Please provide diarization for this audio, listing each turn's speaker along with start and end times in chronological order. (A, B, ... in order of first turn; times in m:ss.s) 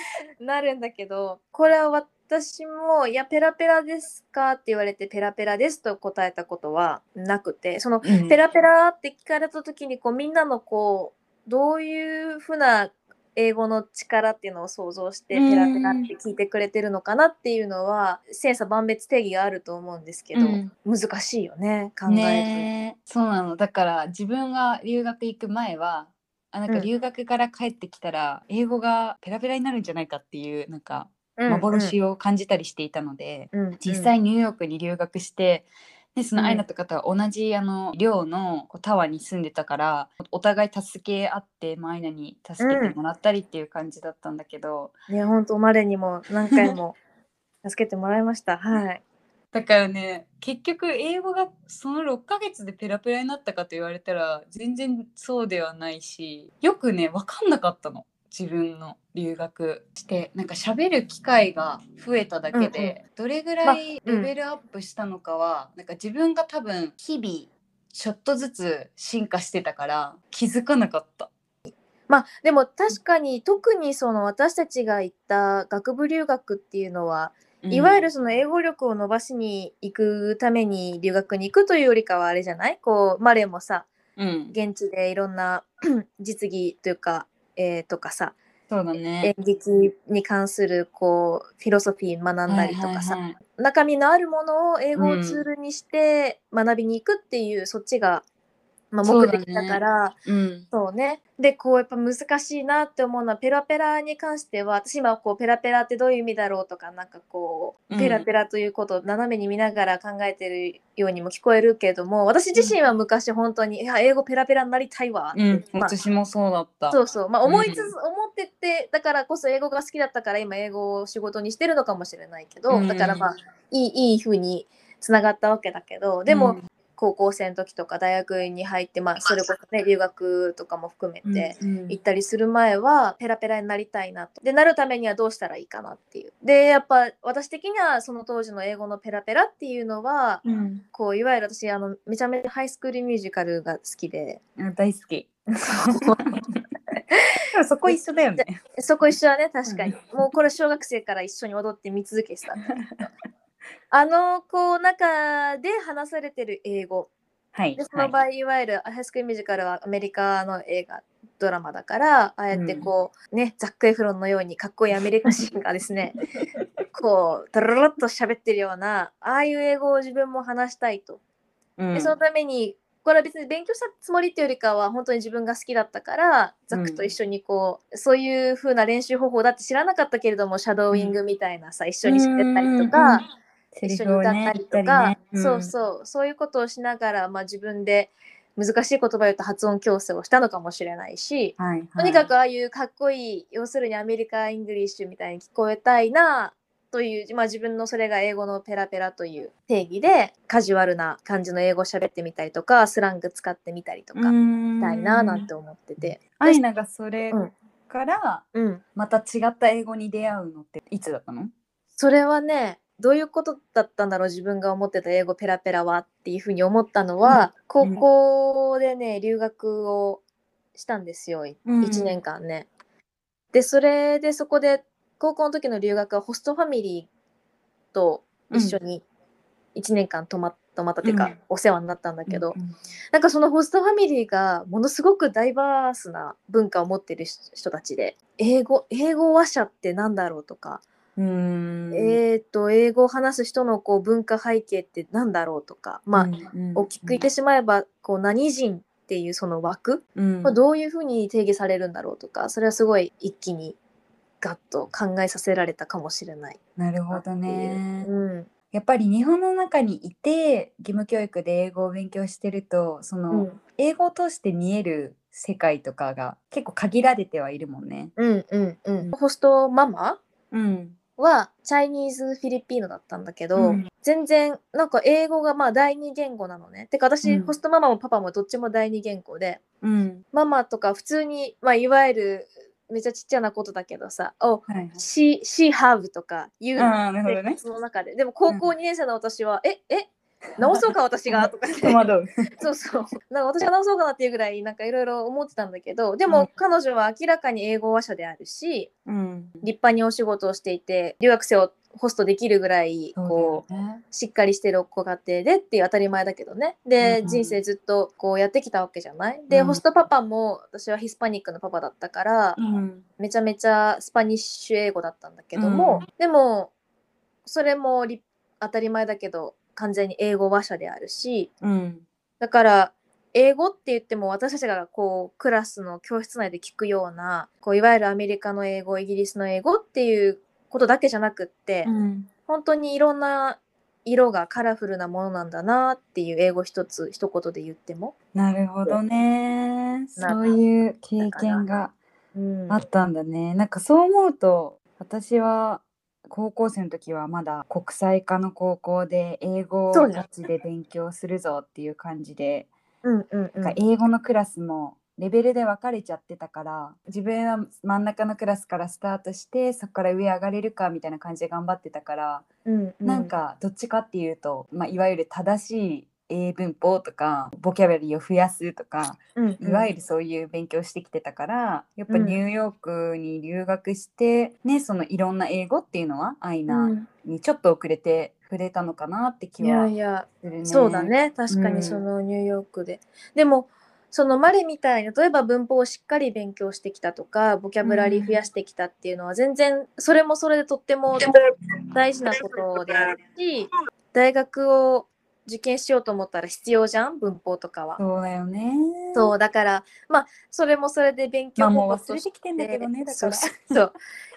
0:00.4-0:22.7 A
0:08.0-0:08.4 B
0:15.3-0:16.1 B
0:20.3-0:20.7 B
0:22.1-0:44.9 B
0:31.4-0:31.9 A
0:33.5-0:34.1 A
0:36.4-0:36.6 A
0:42.6-0:42.9 A
0:45.1-0:47.0 A
0:47.6-0:49.0 A
0:49.5-1:11.3 B
1:02.5-1:03.0 A
1:03.6-1:04.3 A
1:12.1-1:23.9 A
1:17.6-1:18.1 B
1:24.2-1:24.5 B
1:24.5-1:28.4 A
1:28.7-1:29.3 B
1:29.2-1:38.2 A
1:32.5-1:33.3 B
1:35.0-1:35.4 B
1:38.9-1:40.1 A
1:39.0-1:40.7 B
1:40.7-1:55.9 A
1:47.9-1:48.2 B
1:55.3-1:57.9 B
1:56.9-2:24.4 A
2:02.7-2:03.3 B
2:06.3-2:06.6 B
2:11.2-2:12.0 B
2:20.4-2:20.8 B
2:24.6-2:26.4 B
2:25.6-2:26.2 A
2:27.5-2:28.6 B
2:27.9-2:32.8 A
2:29.7-2:30.0 B
2:33.9-2:37.1 A
2:37.5-2:38.1 B
2:37.8-2:46.2 A
2:42.5-2:42.9 B
2:46.9-2:51.2 A
2:51.8-2:52.1 B
2:51.9-3:03.2 A
2:56.7-2:57.0 B
3:00.9-3:01.2 B
3:02.1-3:03.2 B
3:03.7-3:05.7 B
3:03.8-3:26.6 A
3:11.6-3:12.3 B
3:24.1-3:25.5 B
3:26.4-3:31.5 B
3:28.5-3:28.8 A
3:32.0-3:40.2 A
3:37.2-3:38.0 B
3:40.8-3:42.7 A
3:41.6-3:42.1 B
3:43.5-3:47.1 A
3:47.9-3:49.0 A
3:48.5-3:48.8 B
3:49.8-3:52.5 A
3:51.0-3:51.3 B
3:52.3-3:52.7 B
3:53.1-4:00.8 A
4:01.2-4:02.2 B
4:01.9-4:13.8 A
4:06.2-4:07.2 B
4:10.1-4:10.5 B
4:14.4-4:16.6 A
4:16.8-4:18.1 B
4:17.1-4:18.5 A
4:18.7-4:28.1 B
4:23.3-4:23.6 A
4:28.2-4:30.2 A
4:30.5-4:31.0 B
4:31.2-4:39.6 A
4:33.6-4:33.9 B
4:37.2-4:37.5 B
4:39.8-4:40.2 B
4:40.3-4:52.0 A
4:44.7-4:45.0 B
4:46.8-4:47.6 B
4:50.6-4:52.3 B
4:52.6-4:58.9 A
4:59.0-4:59.7 B
4:59.6-5:12.6 A
5:03.2-5:04.0 B
5:07.0-5:07.6 B
5:09.5-5:09.8 B
5:12.6-5:13.0 B
5:13.2-5:16.7 A
5:15.6-5:16.0 B
5:17.4-5:21.5 A
5:21.6-5:22.0 B
5:22.4-5:31.9 A
5:31.8-5:32.3 B
5:32.5-5:38.1 A
5:38.3-5:41.9 B
5:40.2-5:40.5 A
5:41.2-5:41.6 A
5:42.3-5:42.8 A
5:42.7-5:52.7 B
5:49.9-5:50.2 A
5:53.0-5:53.8 A
5:53.6-6:02.4 B
6:02.6-6:03.3 A
6:03.0-6:19.9 B
6:09.4-6:09.9 A
6:12.1-6:12.4 A
6:16.7-6:17.1 A
6:19.6-6:31.3 A
6:20.4-6:22.0 B
6:27.8-6:28.4 B
6:31.9-6:38.0 A
6:38.0-6:39.3 B
6:39.1-6:44.0 A
6:41.6-6:43.7 B